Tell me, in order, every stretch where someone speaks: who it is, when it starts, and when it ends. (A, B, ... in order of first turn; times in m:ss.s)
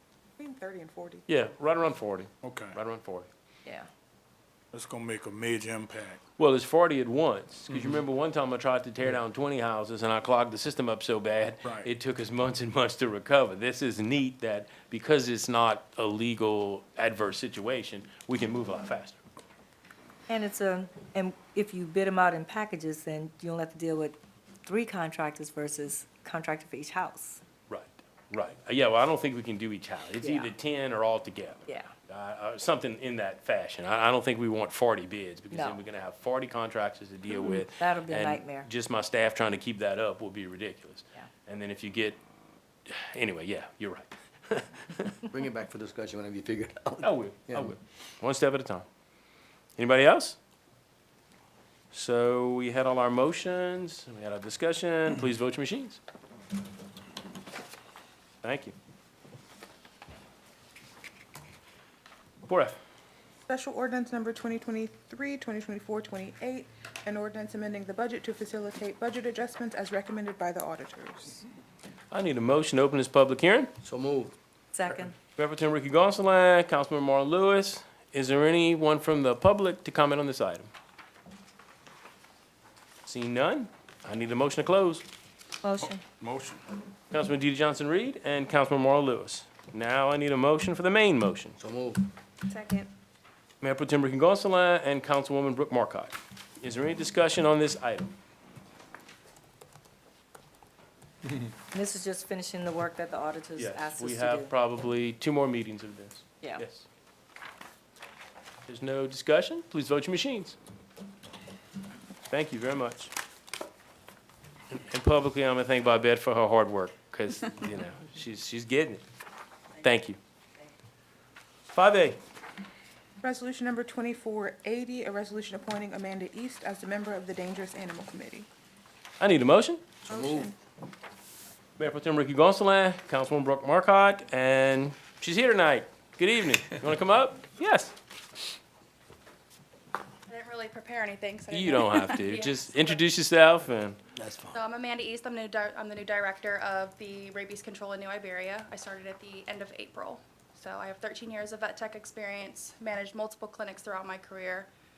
0:00.4-0:01.2 A
0:01.3-0:03.3 B
0:02.4-0:02.8 C
0:04.7-0:06.2 C
0:06.4-0:19.2 B
0:20.3-0:27.4 D
0:27.7-0:42.2 B
0:30.2-0:30.5 D
0:35.5-0:35.8 D
0:37.4-0:38.7 D
0:42.9-0:45.2 B
0:45.3-0:47.7 E
0:47.0-0:48.8 B
0:49.8-0:50.4 B
0:51.9-0:56.0 B
0:58.4-0:58.7 B
1:02.5-1:02.8 B
1:03.5-1:11.4 A
1:12.1-1:13.7 B
1:13.8-1:14.3 E
1:14.7-1:15.2 D
1:15.4-1:20.7 B
1:23.0-1:25.0 B
1:25.6-1:26.0 D
1:25.8-1:26.6 C
1:27.1-1:31.6 B
1:31.6-1:32.0 E
1:32.5-1:32.9 D
1:33.6-1:38.1 B
1:41.7-1:44.5 D
1:43.6-1:46.8 B
1:48.7-1:50.6 B
1:52.3-1:53.1 B
1:54.7-1:59.0 B
1:59.8-2:00.2 B
2:01.7-2:02.2 B
2:03.2-2:08.5 A
2:09.2-2:09.8 B
2:10.1-2:10.5 A
2:10.1-2:10.5 E
2:11.8-2:17.9 B
2:20.3-2:23.0 F
2:21.5-2:24.0 B
2:24.2-2:24.6 E
2:24.5-2:34.7 F